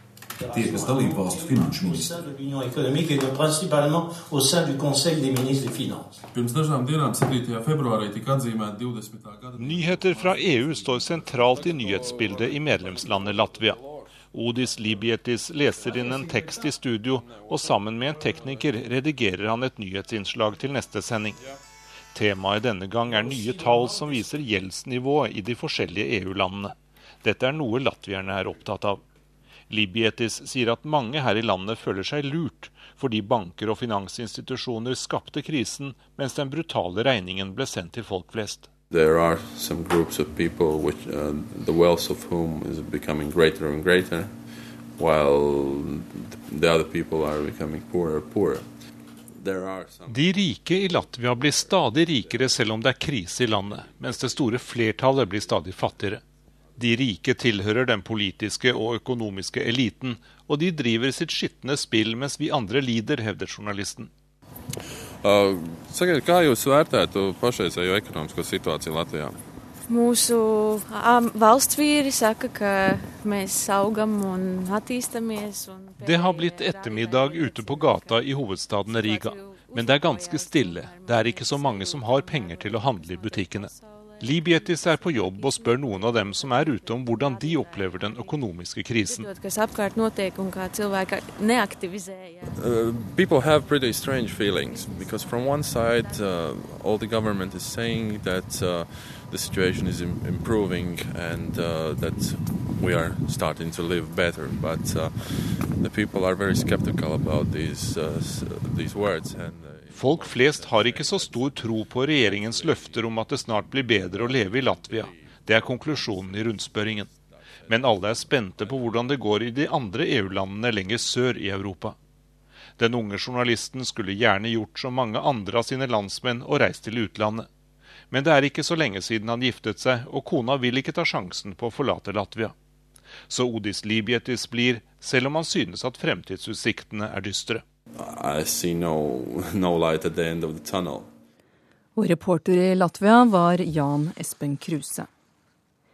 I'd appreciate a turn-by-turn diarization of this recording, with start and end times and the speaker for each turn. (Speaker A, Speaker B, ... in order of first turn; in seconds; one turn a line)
Speaker A: 0.6-6.0
Speaker B: 9.6-21.4
Speaker B: 22.1-29.0
Speaker B: 29.7-38.7
Speaker C: 38.9-48.7
Speaker C: 49.4-50.3
Speaker B: 50.1-56.2
Speaker C: 51.7-52.5
Speaker B: 56.8-64.1
Speaker C: 65.2-69.4
Speaker D: 69.9-78.2
Speaker B: 76.0-89.3
Speaker D: 78.9-84.3
Speaker D: 85.4-85.7
Speaker D: 87.1-88.3
Speaker D: 89.0-92.5
Speaker C: 92.5-111.6
Speaker D: 94.9-95.3
Speaker B: 109.9-117.1
Speaker C: 112.2-113.0
Speaker C: 114.0-115.3
Speaker C: 115.9-116.3
Speaker C: 117.3-117.7
Speaker B: 117.7-122.0
Speaker B: 122.8-127.5
Speaker B: 128.1-132.5
Speaker B: 133.3-137.6
Speaker C: 138.0-141.1
Speaker E: 142.0-145.1